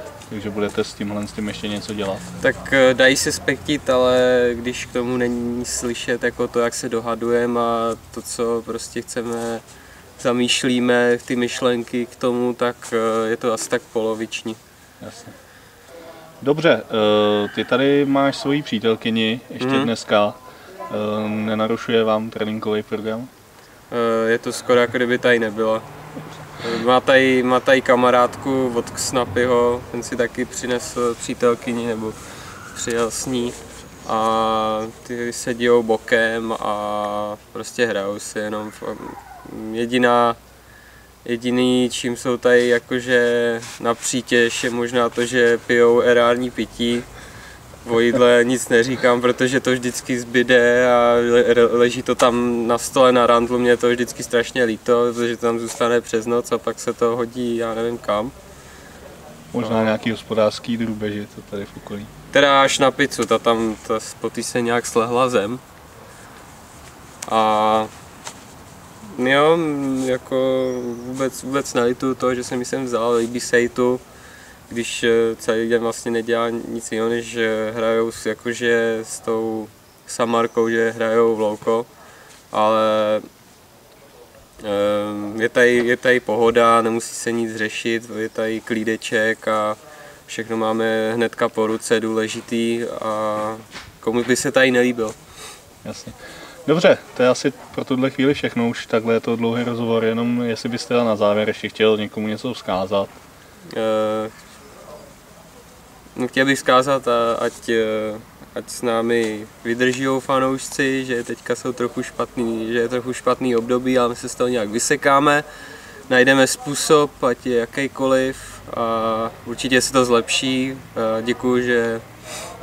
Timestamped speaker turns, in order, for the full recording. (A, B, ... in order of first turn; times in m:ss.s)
0:00.3-0:02.3 A
0:02.4-0:09.6 B
0:10.2-0:14.6 B
0:15.0-0:15.4 A
0:16.4-0:23.3 A
0:19.6-0:19.9 B
0:23.9-0:25.8 B
0:26.6-0:32.2 B
0:32.7-0:40.4 B
0:41.2-0:47.1 B
0:47.8-0:58.3 B
0:59.5-1:02.1 A
0:59.6-0:59.9 B
1:02.3-1:05.6 B
1:07.3-1:07.9 B
1:09.1-1:14.0 B
1:14.7-1:21.9 B
1:22.5-1:23.2 B
1:24.6-1:35.2 B
1:35.8-1:43.2 A
1:43.7-1:44.3 B
1:46.2-1:55.4 B
1:56.1-2:02.1 B